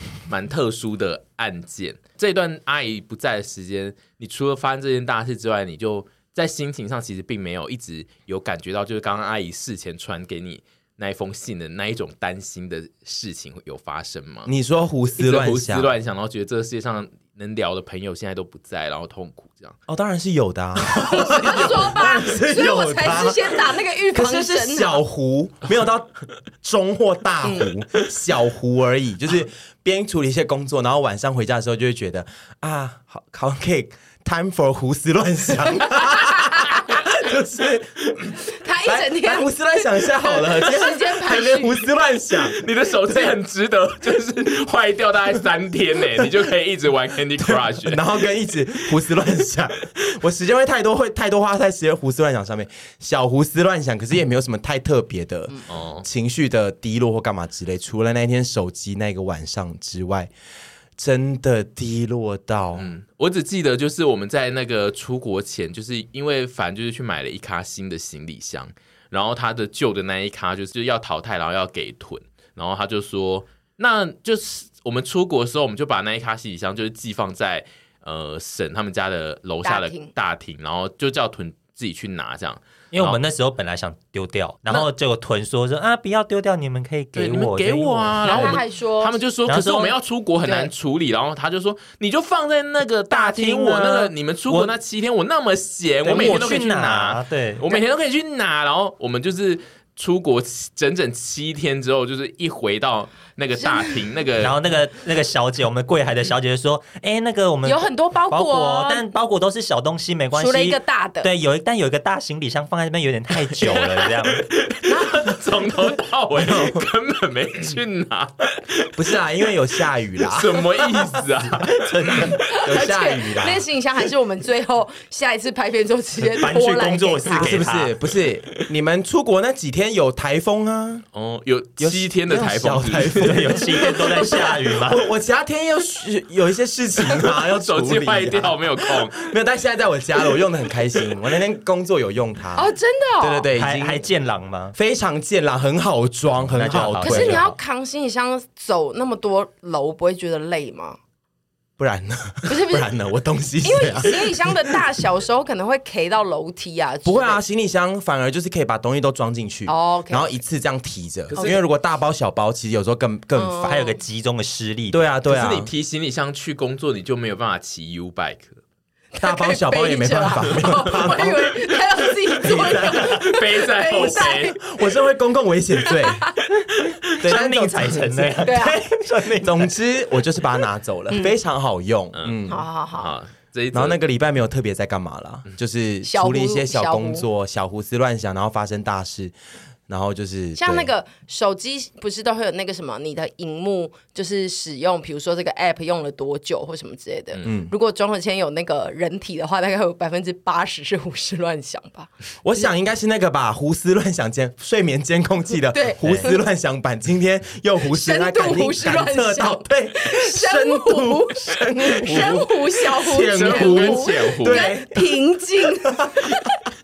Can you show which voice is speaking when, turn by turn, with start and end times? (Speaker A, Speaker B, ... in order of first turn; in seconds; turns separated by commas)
Speaker A: 0.2-14.5, Speaker B: 14.4-15.9, Speaker A: 15.2-19.8, Speaker B: 19.9-43.4, Speaker C: 20.9-25.0, Speaker A: 21.4-21.7, Speaker C: 35.9-37.0, Speaker C: 38.5-41.8, Speaker A: 42.6-48.0, Speaker B: 47.4-60.3, Speaker A: 55.7-56.0, Speaker B: 61.0-62.9, Speaker A: 62.8-83.2, Speaker C: 79.6-80.1, Speaker D: 82.9-88.6, Speaker A: 87.1-104.6, Speaker C: 88.2-89.2, Speaker D: 89.5-90.0, Speaker C: 90.4-90.7, Speaker D: 93.1-94.7, Speaker D: 96.0-97.6, Speaker C: 103.6-104.0, Speaker D: 104.4-114.5, Speaker C: 107.6-109.0, Speaker C: 110.3-111.3, Speaker A: 114.5-118.9, Speaker C: 114.8-115.3, Speaker B: 116.3-116.8, Speaker B: 118.9-123.6, Speaker A: 120.2-122.4, Speaker D: 121.8-122.4, Speaker C: 122.3-127.6, Speaker D: 126.3-127.9, Speaker B: 127.3-131.0, Speaker A: 131.1-133.6, Speaker B: 131.8-144.0, Speaker D: 133.1-135.0, Speaker C: 133.8-134.5, Speaker A: 137.2-139.2, Speaker C: 142.6-143.4, Speaker D: 143.5-144.8, Speaker B: 144.7-147.5, Speaker D: 146.5-147.5, Speaker C: 147.0-151.0, Speaker B: 151.8-154.8, Speaker C: 152.4-152.9, Speaker C: 153.6-157.4, Speaker B: 157.0-163.8, Speaker C: 159.7-160.3, Speaker C: 163.3-163.9, Speaker D: 163.6-165.0, Speaker B: 164.9-165.7, Speaker A: 165.2-168.6, Speaker C: 169.1-174.7, Speaker B: 169.2-171.6, Speaker B: 172.4-173.2, Speaker A: 172.6-174.6, Speaker B: 174.0-176.3, Speaker C: 175.8-176.5, Speaker D: 177.1-179.8, Speaker B: 177.2-182.6, Speaker C: 178.4-178.8, Speaker C: 181.1-181.3, Speaker A: 182.1-182.4, Speaker C: 182.5-183.2, Speaker A: 182.9-184.0, Speaker B: 183.7-189.3, Speaker C: 186.0-187.2, Speaker B: 189.9-190.9, Speaker C: 190.6-202.1, Speaker B: 197.4-197.7, Speaker B: 202.4-215.1, Speaker C: 205.7-206.4, Speaker C: 207.9-216.5, Speaker A: 213.2-214.7